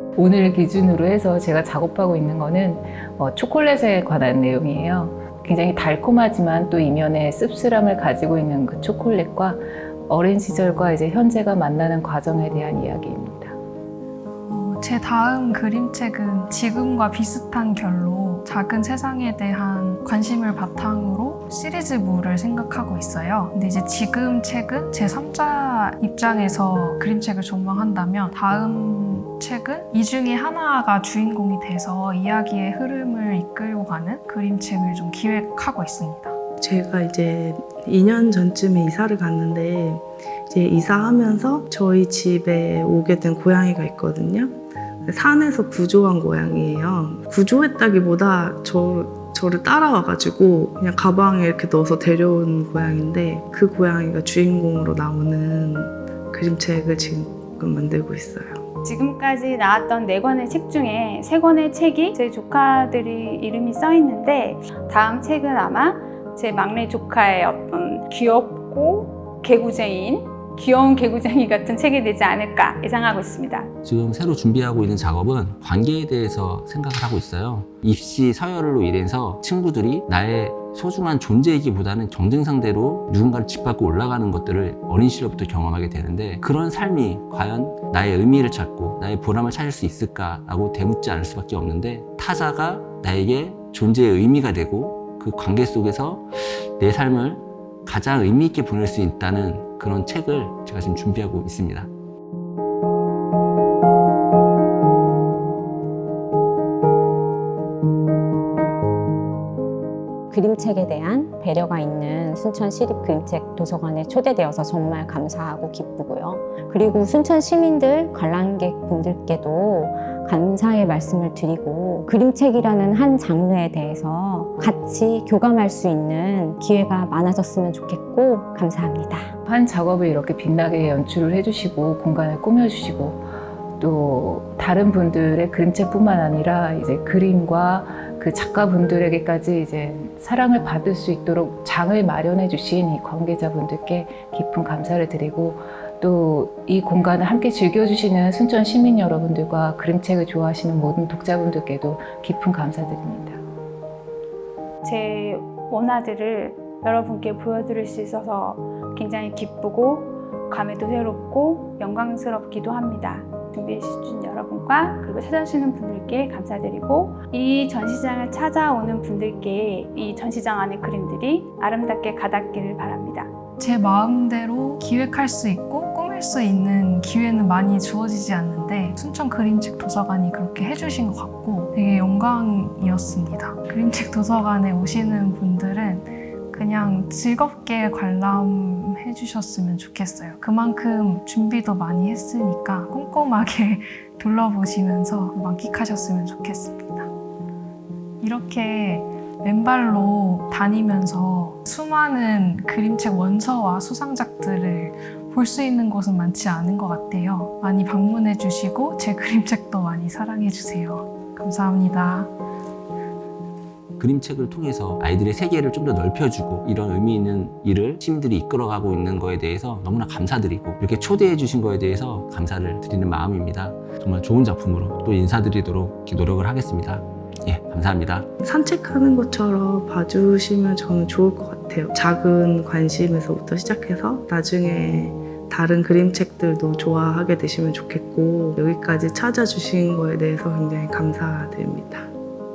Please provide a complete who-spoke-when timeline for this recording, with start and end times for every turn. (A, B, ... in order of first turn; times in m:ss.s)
0:00.2-0:13.6 A
0:14.4-0:36.4 B
0:36.6-0:44.5 C
0:45.0-0:58.6 C
0:58.8-1:13.7 D
1:13.8-1:41.9 E
1:50.3-2:09.3 F
2:09.4-2:13.2 A
2:13.8-2:33.4 A
2:34.8-2:53.3 D
2:53.6-3:17.1 B
3:18.2-3:32.3 B
3:34.0-3:48.3 E
3:48.4-4:02.1 C